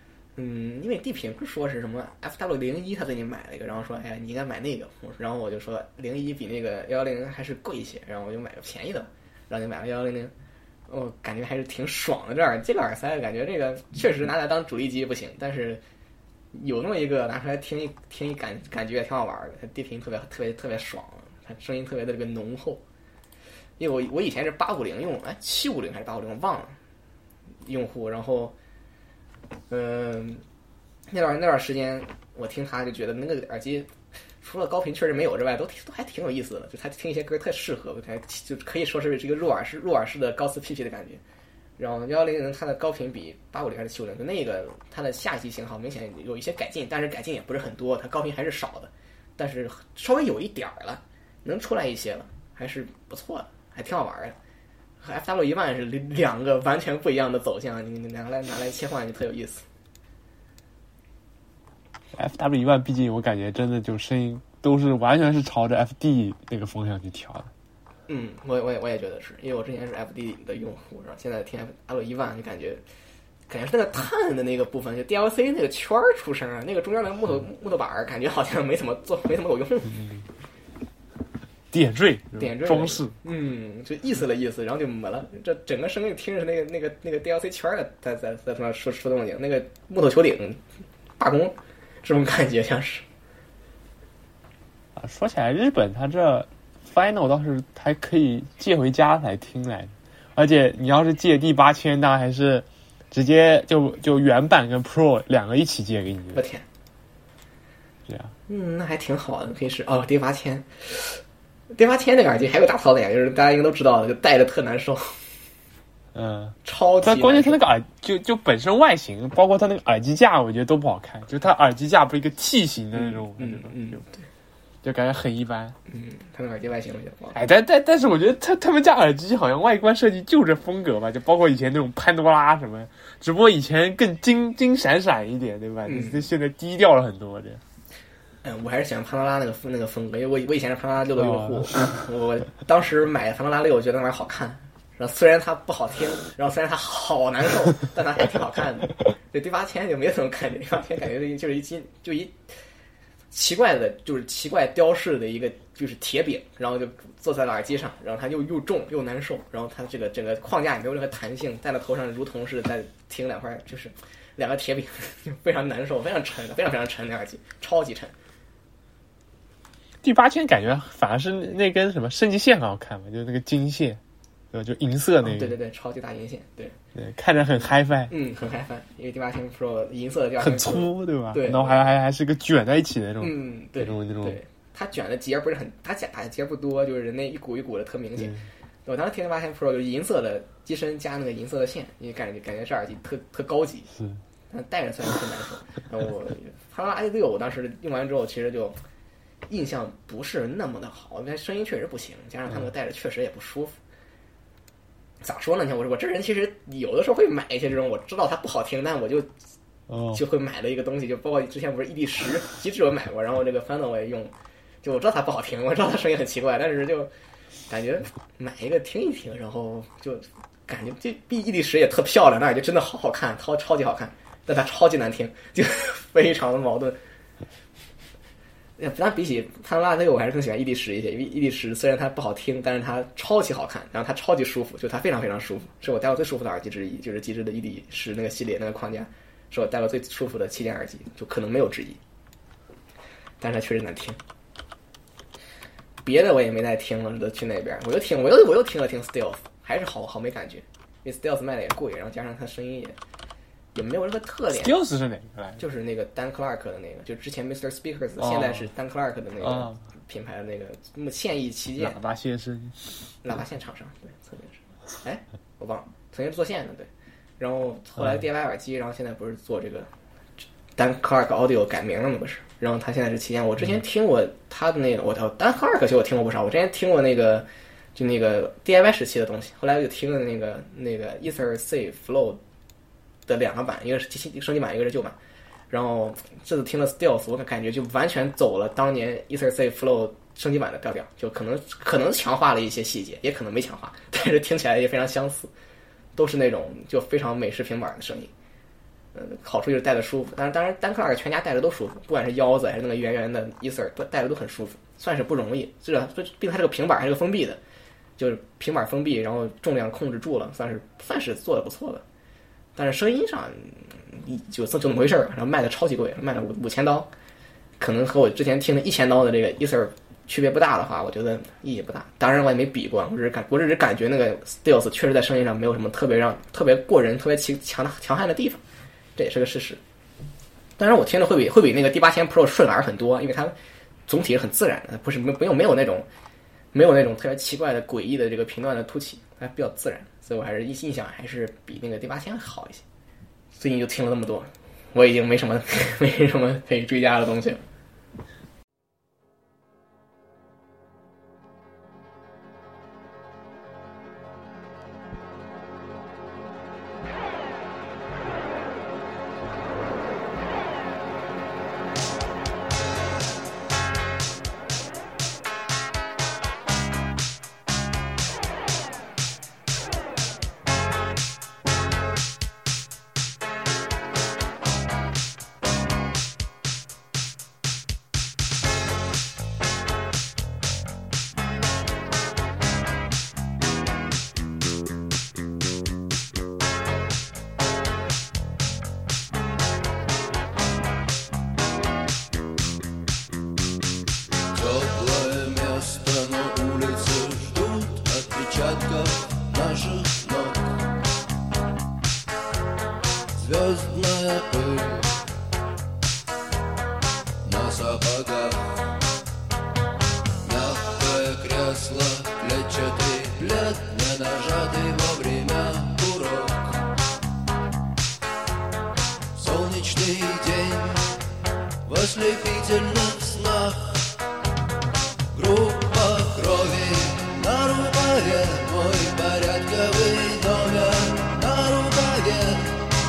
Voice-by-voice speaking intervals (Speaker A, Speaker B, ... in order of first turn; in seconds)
Speaker A: 0.3-10.3, 10.9-15.8, 16.5-22.8, 23.8-26.8, 27.6-28.5, 29.7-30.4, 31.1-41.2, 41.8-54.4, 55.0-59.6, 68.1-72.8, 73.5-80.0, 82.4-90.6, 91.2-93.0, 106.3-106.6, 108.5-111.2, 111.7-115.2, 116.6-117.6, 122.9-124.2, 125.9-127.4, 135.8-136.2, 138.4-152.4, 153.3-168.1, 175.2-176.8, 178.1-181.8, 183.2-193.9, 194.5-198.8, 199.5-203.8, 205.2-209.3, 210.1-217.1, 217.7-227.0, 228.8-242.0, 243.4-244.2, 246.0-253.0, 253.7-254.7, 255.6-262.0, 263.2-269.9, 270.8-282.4, 283.3-285.2, 285.7-295.5, 296.1-298.3, 299.1-307.6, 308.2-312.0, 312.8-317.1, 317.8-328.6, 329.1-329.8, 330.8-333.5, 334.1-336.1, 336.7-342.8, 343.5-347.6
Speaker B: 62.1-67.5, 80.0-80.2, 81.7-83.1, 95.0-106.4, 108.1-108.3, 116.1-124.0, 124.8-125.8, 127.3-137.6, 141.2-141.9, 170.0-174.0, 174.5-175.6, 176.9-178.1, 180.4-184.4, 188.2-188.4, 193.9-194.2, 209.9-210.2, 254.6-255.6, 258.2-258.7, 259.4-259.8, 261.8-262.8
Speaker C: 394.5-400.8, 403.4-405.2, 407.4-408.8, 410.4-416.8, 419.3-421.1, 421.8-424.0, 425.3-432.8